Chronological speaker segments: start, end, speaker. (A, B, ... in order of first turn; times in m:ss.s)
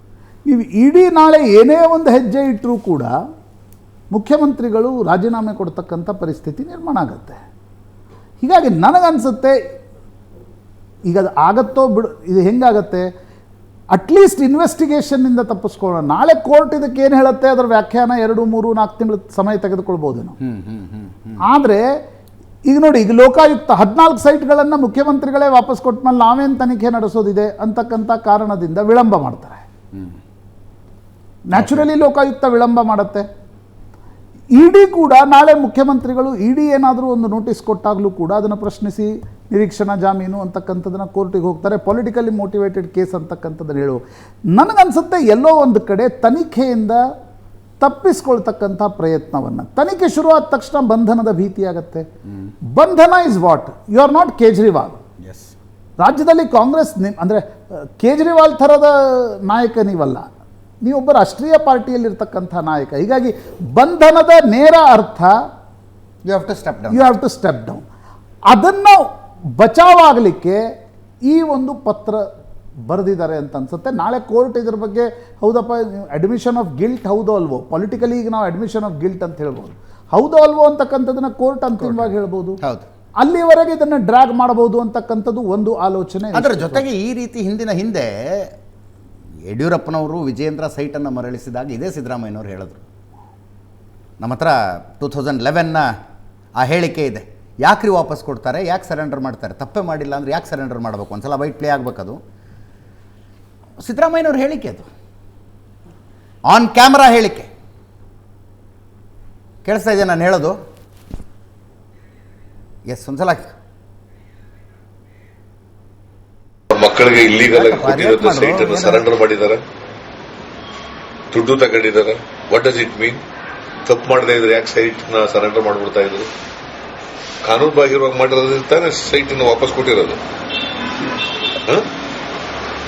0:00.4-0:03.1 A
0:04.1-0:07.4 A
0:08.4-0:09.5 A
0:11.0-0:13.1 A
0:13.9-0:20.4 A
0:20.4-0:21.4 B
0:21.4-0:21.8 A
0:22.6-0:29.6 A
0:31.5-0:33.2 A
0:31.5-0:31.9 B
0:34.5-0:44.0 A
0:44.5-0:47.0 A
0:47.8-0:52.0 A
0:52.7-0:55.0 A
0:55.2-0:55.5 B
0:56.0-1:00.2 A
1:00.8-1:05.3 A
1:06.2-1:07.1 B
1:06.9-1:07.8 A
1:08.5-1:09.0 A
1:09.5-1:10.6 A
1:11.2-1:12.2 A
1:12.9-1:22.6 A
1:21.8-1:22.1 B
1:22.6-1:22.9 B
1:23.2-1:26.8 A
1:26.3-1:28.5 B
1:29.5-1:32.8 B
1:34.2-1:35.9 B
1:36.6-1:42.2 B
1:43.8-1:44.9 B
1:46.5-1:47.5 B
1:49.6-1:50.6 B
1:52.9-1:53.5 B
1:56.7-1:59.6 C
1:57.4-1:59.0 B
2:01.3-2:03.2 C
2:03.8-2:06.3 C
2:07.4-2:10.2 C